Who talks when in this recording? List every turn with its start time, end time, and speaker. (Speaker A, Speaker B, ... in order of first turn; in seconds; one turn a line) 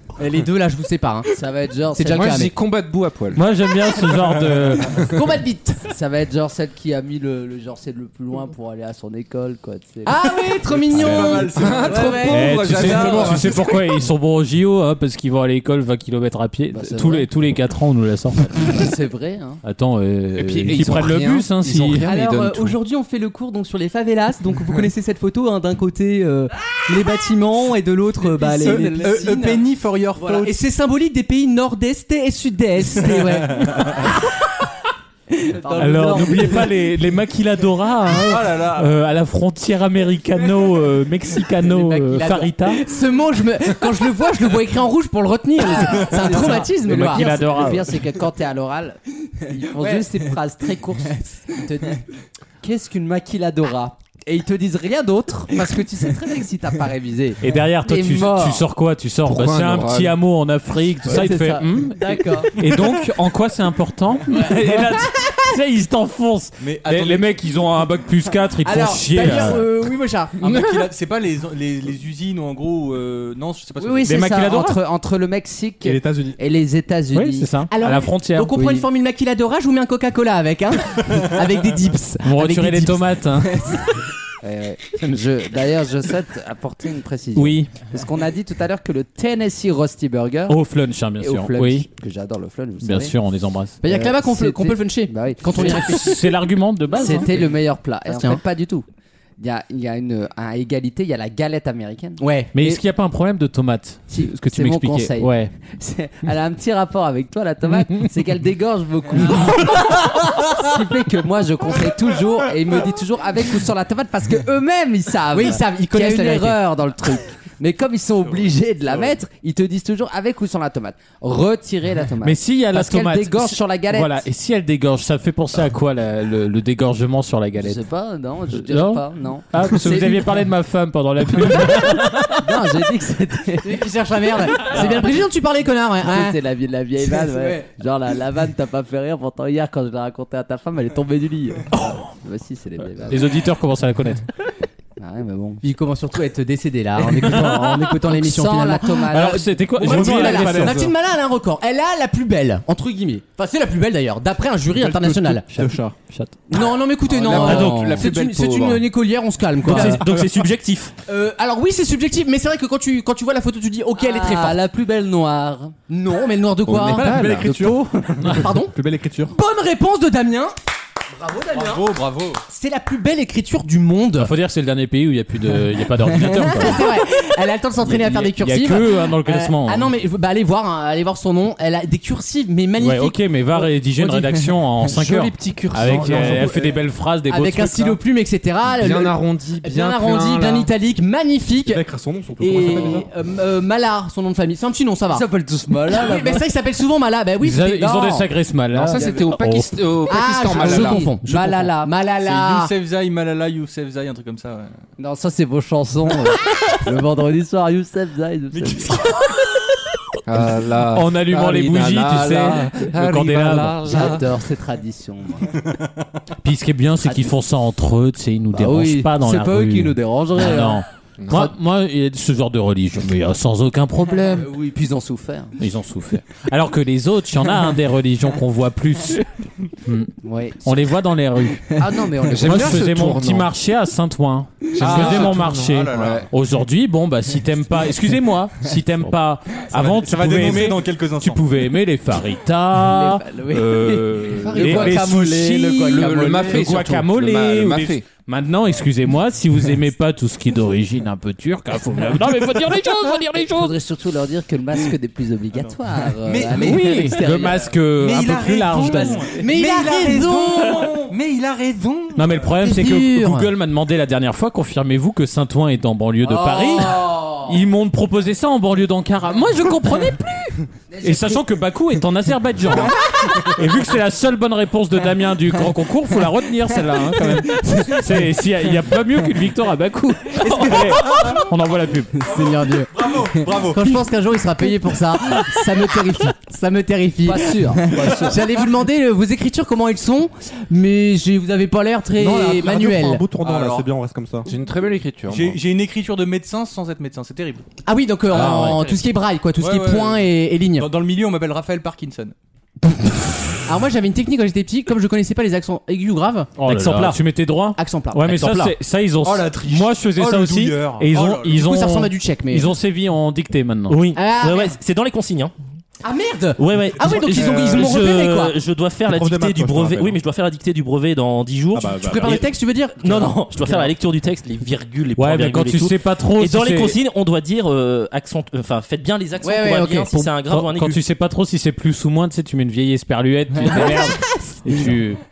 Speaker A: 0.2-1.3
Speaker B: 1.3-2.5
Speaker A: 1.9-2.5
Speaker C: 2.1-3.4
Speaker D: 3.3-5.0
Speaker A: 5.0-5.8
Speaker B: 5.8-10.2
Speaker A: 10.0-12.2
Speaker E: 10.7-12.4
Speaker C: 10.9-13.7
Speaker B: 11.8-13.0
Speaker D: 12.3-18.6
Speaker B: 16.7-17.3
Speaker B: 18.6-19.6
Speaker D: 19.6-22.1
Speaker C: 20.4-22.8
Speaker A: 22.0-29.6
Speaker E: 28.3-30.6
Speaker B: 28.3-29.5
Speaker A: 30.2-34.1
Speaker E: 33.2-33.9
Speaker A: 35.3-36.3
Speaker B: 35.5-36.7
Speaker D: 35.8-42.8
Speaker E: 38.1-38.9
Speaker A: 41.7-47.3
Speaker B: 45.9-52.0
Speaker D: 46.8-47.9
Speaker A: 49.8-50.1
Speaker B: 52.6-58.6
Speaker D: 57.4-69.6
Speaker C: 59.2-60.2
Speaker B: 61.0-62.5
Speaker E: 66.6-67.4
Speaker A: 68.6-70.8
Speaker E: 70.4-74.3
Speaker B: 73.8-77.5
Speaker D: 74.0-74.8
Speaker F: 75.8-76.4
Speaker D: 77.1-78.5
Speaker A: 77.7-83.9
Speaker B: 78.5-78.8
Speaker D: 82.2-83.6
Speaker B: 84.4-90.6
Speaker D: 87.3-87.7
Speaker D: 90.5-91.9
Speaker B: 91.2-93.1
Speaker D: 92.8-93.8
Speaker A: 93.8-96.2
Speaker B: 93.8-96.2
Speaker D: 95.6-97.4
Speaker B: 96.9-98.8
Speaker A: 96.9-97.5
Speaker A: 98.1-98.4
Speaker B: 99.4-102.2
Speaker A: 102.2-102.8
Speaker D: 102.5-105.5
Speaker B: 104.1-124.2
Speaker A: 115.3-116.6
Speaker E: 118.2-119.2
Speaker D: 122.2-127.8
Speaker B: 127.6-130.2
Speaker D: 128.5-132.4
Speaker B: 131.7-133.7
Speaker A: 133.6-136.4
Speaker B: 134.7-135.0
Speaker B: 136.0-143.3
Speaker A: 137.1-137.6
Speaker D: 141.7-142.0
Speaker D: 143.1-144.3
Speaker B: 145.0-145.6
Speaker A: 145.6-155.4
Speaker D: 147.0-148.5
Speaker B: 148.1-149.4
Speaker D: 149.1-150.8
Speaker F: 149.8-150.9
Speaker F: 154.7-155.9
Speaker D: 155.5-156.3
Speaker A: 156.5-160.0
Speaker C: 157.2-158.8
Speaker G: 157.3-158.0
Speaker G: 159.6-160.9
Speaker A: 161.1-164.6
Speaker B: 164.0-165.7
Speaker A: 165.9-168.7
Speaker C: 166.7-167.6
Speaker F: 166.9-169.3
Speaker A: 169.3-170.5
Speaker A: 171.2-171.9
Speaker E: 171.5-172.4
Speaker A: 172.5-174.3
Speaker D: 174.2-176.9
Speaker A: 176.2-184.9
Speaker D: 177.8-179.9
Speaker D: 182.8-188.0
Speaker C: 184.9-186.7
Speaker A: 185.9-186.6
Speaker A: 187.3-191.8
Speaker C: 188.7-190.7
Speaker F: 191.6-193.1
Speaker A: 192.4-195.2
Speaker B: 195.1-196.4
Speaker A: 195.9-198.3
Speaker D: 197.4-199.7
Speaker C: 198.7-201.1
Speaker A: 200.1-202.7
Speaker B: 200.5-201.9
Speaker E: 202.2-204.7
Speaker B: 205.0-208.9
Speaker E: 208.5-209.2
Speaker C: 210.2-214.3
Speaker D: 210.9-213.8
Speaker B: 213.8-215.6
Speaker D: 216.4-224.5
Speaker B: 217.0-217.3
Speaker B: 218.5-220.8
Speaker C: 221.2-221.5
Speaker B: 224.3-225.6
Speaker D: 225.6-229.3
Speaker D: 229.8-230.1
Speaker B: 230.2-230.8
Speaker D: 230.6-231.8
Speaker B: 231.8-232.8
Speaker C: 232.2-233.5
Speaker D: 232.4-253.8
Speaker C: 234.8-236.3
Speaker E: 234.8-236.2
Speaker E: 239.7-241.4
Speaker B: 242.8-246.7
Speaker C: 243.8-245.3
Speaker C: 245.8-248.1
Speaker B: 253.4-257.7
Speaker E: 256.2-257.2
Speaker D: 256.6-259.3
Speaker E: 257.9-262.5
Speaker A: 259.3-261.1
Speaker D: 262.1-272.9
Speaker A: 262.6-263.5
Speaker A: 266.2-267.5
Speaker B: 270.9-271.4
Speaker A: 273.2-273.5
Speaker D: 273.5-282.2
Speaker A: 280.5-281.2
Speaker A: 282.2-293.2
Speaker E: 282.9-284.0
Speaker B: 287.2-288.4
Speaker E: 288.0-288.2
Speaker F: 292.1-294.5
Speaker E: 293.4-293.9
Speaker C: 294.4-295.6
Speaker E: 295.3-297.6
Speaker A: 297.9-300.9
Speaker D: 298.3-299.0
Speaker E: 298.3-298.8
Speaker E: 299.6-302.3
Speaker A: 303.6-306.5
Speaker D: 306.6-314.0
Speaker G: 306.6-307.2
Speaker A: 307.8-308.4
Speaker G: 308.2-308.7
Speaker E: 309.2-311.6
Speaker A: 311.5-312.7
Speaker G: 313.9-315.5
Speaker A: 314.1-314.8
Speaker A: 316.0-318.6
Speaker G: 316.6-322.4
Speaker F: 317.3-318.0
Speaker F: 319.1-320.2
Speaker F: 321.7-322.5
Speaker A: 322.0-323.5
Speaker G: 323.0-331.0
Speaker D: 323.6-323.9
Speaker D: 325.2-327.0
Speaker A: 329.4-330.4
Speaker D: 330.5-335.2
Speaker A: 333.6-334.8